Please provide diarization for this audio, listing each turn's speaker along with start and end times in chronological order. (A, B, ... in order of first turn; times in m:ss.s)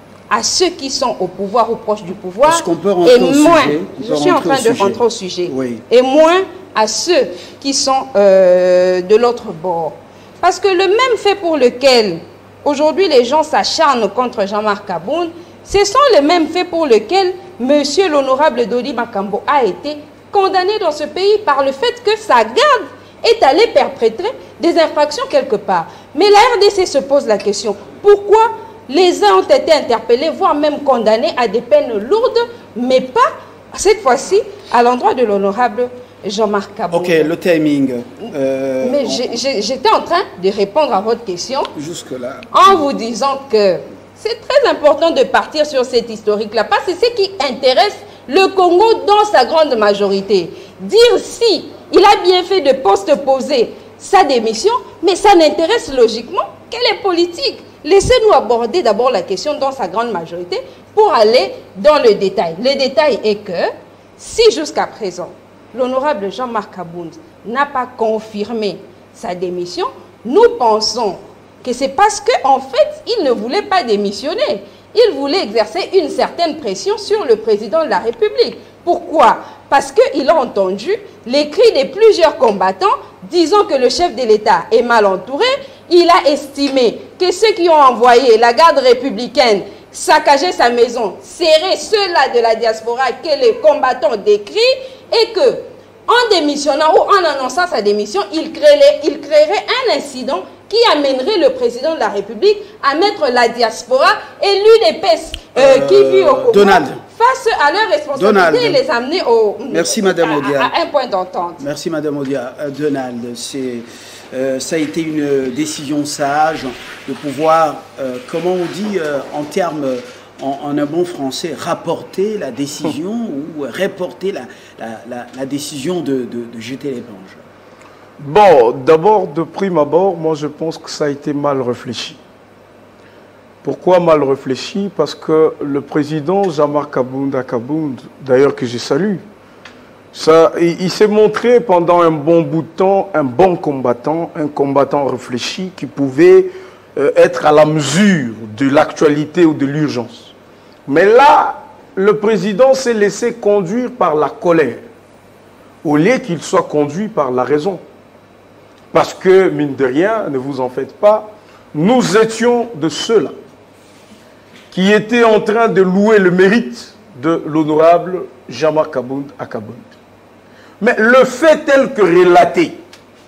0:00.3-0:37.3 A
0:02.4-0:05.8 B
0:36.9-0:39.4 B
0:38.8-0:41.7 A
0:41.7-0:42.8 B
0:42.5-1:51.6 A
1:45.6-1:47.0 B
1:48.1-1:48.8 B
1:49.7-1:50.7 B
1:51.6-2:07.4 B
2:08.2-2:12.2 C
2:13.6-2:19.2 C
2:20.1-2:30.3 C
2:30.9-2:34.8 C
2:35.8-2:37.8 C
2:38.9-2:43.4 C
2:44.7-2:49.9 C
2:50.8-2:52.8 C